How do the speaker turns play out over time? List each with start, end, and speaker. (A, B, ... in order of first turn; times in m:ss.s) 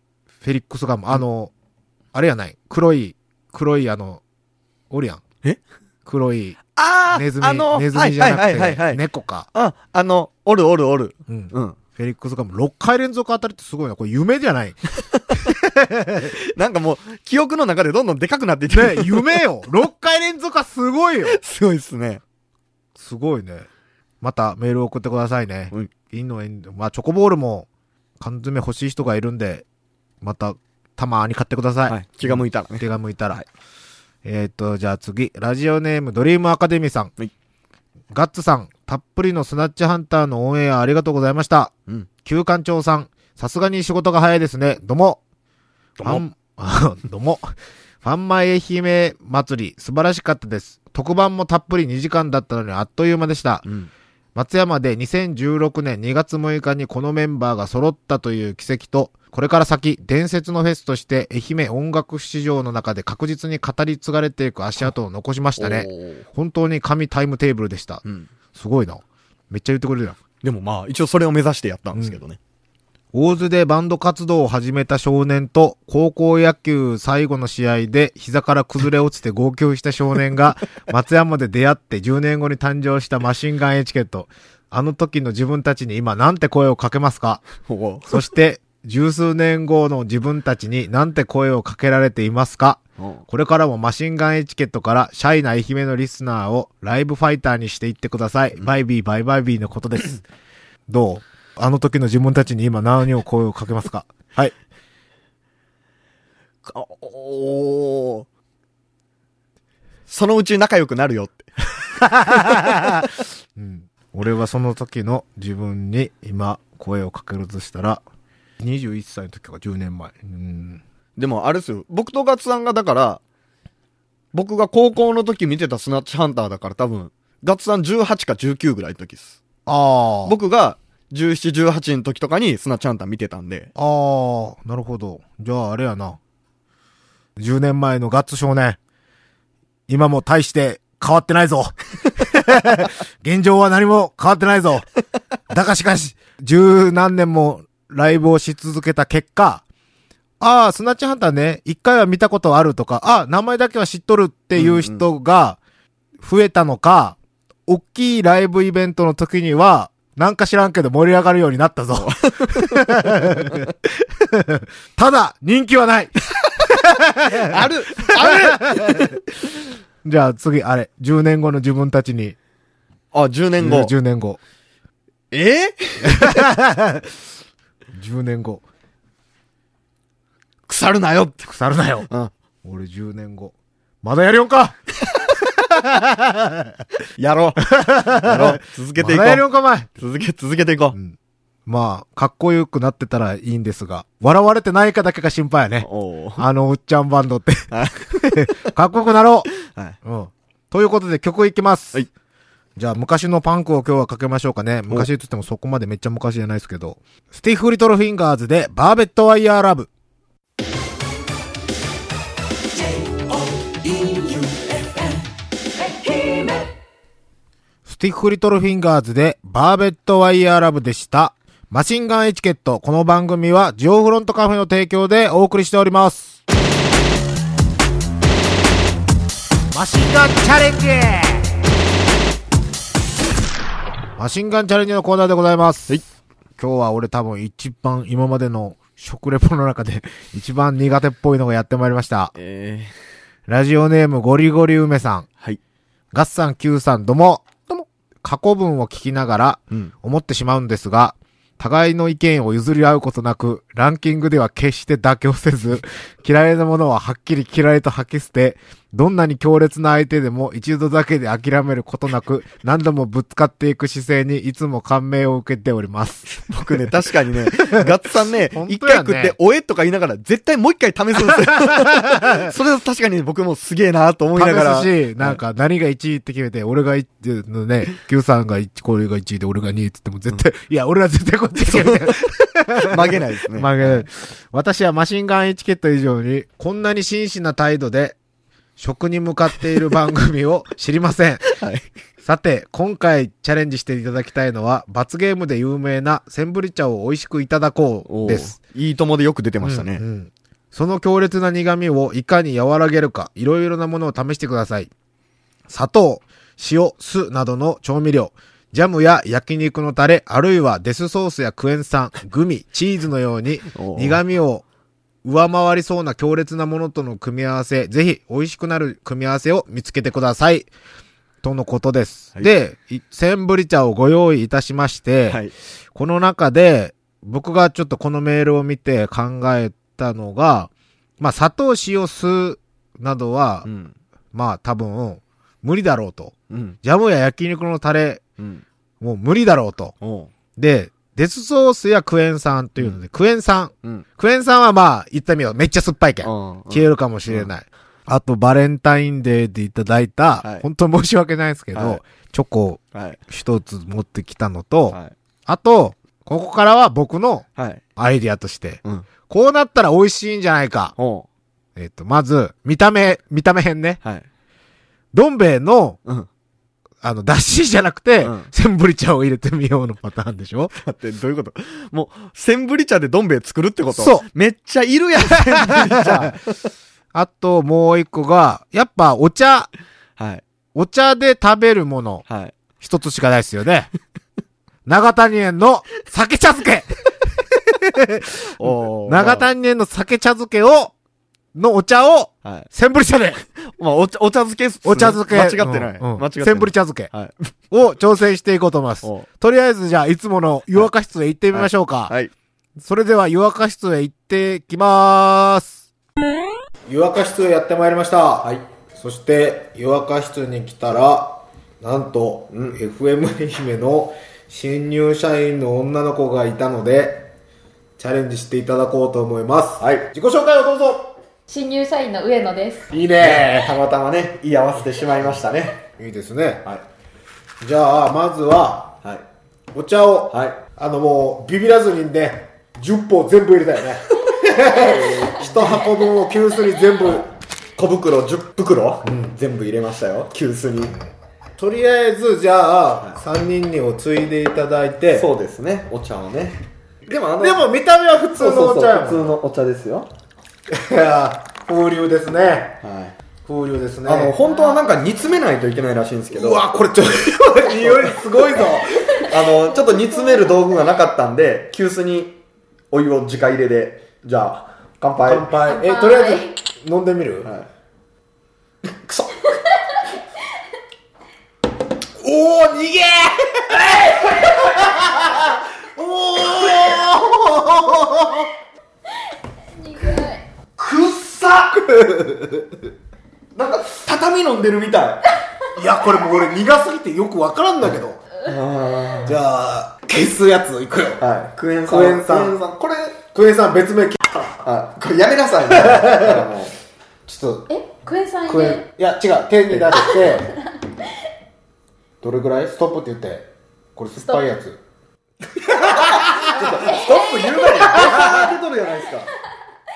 0:00.4-0:01.5 A
0:02.1-0:04.2 A
0:04.9-0:05.2 A
0:06.1-0:06.6 A
0:06.8-0:09.0 B
0:07.1-0:09.5 A
0:09.5-0:11.8 B
0:11.3-0:14.8 A
0:15.0-0:15.5 B
0:15.3-0:16.3 A
0:16.2-0:19.4 B
0:18.7-0:21.4 A
0:21.2-0:22.2 B
0:23.0-0:23.7 A
0:24.2-0:27.7 A
0:28.2-0:29.6 A
0:30.2-0:33.4 A
0:31.9-0:33.5 B
0:34.2-0:37.1 A
0:38.1-0:41.7 A
0:42.2-0:45.2 A
0:46.0-0:53.7 A
0:54.4-1:08.0 A
1:05.6-1:06.2 B
1:08.0-1:08.3 B
1:08.5-1:10.2 A
1:10.4-1:12.4 B
1:13.1-1:27.5 A
1:27.7-1:28.3 B
1:28.1-1:40.2 A
1:33.0-1:33.2 B
1:40.9-1:44.5 A
1:46.6-1:48.3 B
1:50.1-1:53.1 B
1:52.2-1:53.0 A
1:53.6-1:58.0 A
1:58.6-2:00.8 A
2:01.2-2:03.2 B
2:04.3-2:09.4 B
2:09.7-2:10.4 A
2:10.2-2:13.7 B
2:13.8-2:16.2 A
2:17.4-2:18.8 A
2:19.9-2:24.9 A
2:25.5-2:29.6 A
2:30.4-2:35.6 A
2:34.6-2:35.1 B
2:36.2-2:49.2 A
2:41.9-2:43.7 B
2:47.2-2:49.2 B
2:50.0-2:52.4 A
2:53.1-2:53.9 B
2:53.6-2:54.4 A
2:55.3-2:56.5 B
2:56.0-2:57.1 A
2:57.9-2:58.6 A
3:00.7-3:02.3 B
3:01.5-3:02.1 A
3:02.6-3:04.8 A
3:05.6-3:06.8 A
3:07.2-3:09.4 B
3:07.7-3:09.9 A
3:10.0-3:11.0 B
3:10.9-3:19.5 A
3:15.8-3:16.5 B
3:17.7-3:18.7 B
3:19.6-3:20.0 B
3:20.0-3:22.0 A
3:22.8-3:29.9 A
3:33.8-3:35.0 C
3:36.1-3:36.5 C
3:37.9-3:46.4 A
3:49.7-3:51.6 A
3:54.2-3:56.0 A
3:56.6-4:02.4 A
4:02.4-4:02.9 B
4:03.5-4:05.3 A
4:06.1-4:27.9 A
4:26.3-4:35.4 B
4:28.5-4:29.4 A
4:31.2-4:32.5 A
4:34.4-4:48.2 A
4:41.6-4:44.1 B
4:48.8-4:51.4 A
4:51.5-4:51.9 B
4:52.2-4:58.6 A
4:58.1-5:00.0 B
4:59.6-5:04.9 A
5:05.7-5:14.6 A
5:13.7-5:14.2 B
5:15.2-5:20.7 A
5:21.4-5:25.4 A
5:25.3-5:25.5 B
5:25.9-5:33.7 A
5:33.6-5:34.0 B
5:34.3-5:38.2 A
5:36.5-5:36.8 B
5:38.4-5:38.6 B
5:39.0-5:40.0 A
5:40.0-5:40.3 B
5:40.6-6:00.9 A
5:46.2-5:47.5 B
5:51.7-5:52.0 B
5:52.9-5:53.2 B
5:54.9-5:55.2 B
5:57.6-5:57.8 B
6:01.0-6:01.3 B
6:01.8-6:04.0 A
6:05.1-6:06.0 A
6:07.0-6:10.7 A
6:08.2-6:08.5 B
6:10.8-6:16.6 B
6:13.9-6:14.3 A
6:15.2-6:16.4 A
6:17.1-6:19.7 A
6:20.2-6:20.4 B
6:20.8-6:22.2 A
6:22.3-6:22.6 B
6:22.8-6:23.9 A
6:24.9-6:30.9 A
6:28.6-6:29.5 B
6:31.6-6:33.4 A
6:32.4-6:32.7 B
6:33.6-6:37.5 B
6:34.8-6:37.1 A
6:37.7-6:42.1 A
6:41.5-6:42.3 B
6:42.8-6:45.8 A
6:46.9-6:57.3 A
6:52.5-6:52.8 B
6:58.0-7:01.1 A
6:59.8-7:00.1 B
7:01.5-7:02.9 C
7:02.9-7:03.7 A
7:03.2-7:05.9 B
7:06.0-7:06.6 A
7:07.6-7:09.0 A
7:09.7-7:17.3 A
7:10.3-7:10.6 B
7:14.7-7:15.9 B
7:17.8-7:21.0 B
7:19.0-7:19.4 A
7:21.6-7:25.3 A
7:25.1-7:27.6 B
7:27.4-7:29.3 A
7:28.4-7:30.1 B
7:30.7-7:32.8 A
7:32.8-7:33.2 B
7:33.5-7:34.4 A
7:34.0-7:36.6 B
7:34.4-7:34.9 C
7:36.3-7:39.2 A
7:37.6-7:38.2 B
7:39.1-7:42.4 B
7:39.8-7:40.5 C
7:42.9-7:45.5 B
7:45.2-7:47.5 A
7:45.7-7:46.5 C
7:47.4-7:47.7 B
7:49.0-7:49.3 B
7:52.2-7:58.5 A
7:59.8-8:00.5 C
8:00.8-8:01.9 B
8:01.8-8:02.8 A
8:03.6-8:05.3 B
8:05.8-8:08.2 A
8:08.4-8:09.4 B
8:09.2-8:11.2 A
8:11.2-8:13.2 B
8:11.9-8:12.6 A
8:13.3-8:14.5 A
8:14.6-8:16.7 B
8:15.7-8:16.5 A
8:17.3-8:17.7 A
8:17.7-8:18.9 C
8:18.5-8:20.6 A
8:19.7-8:20.0 B
8:20.2-8:20.6 C
8:22.2-8:24.8 A
8:24.2-8:24.4 C
8:25.6-8:29.3 B
8:25.7-8:27.0 A
8:27.7-8:28.5 A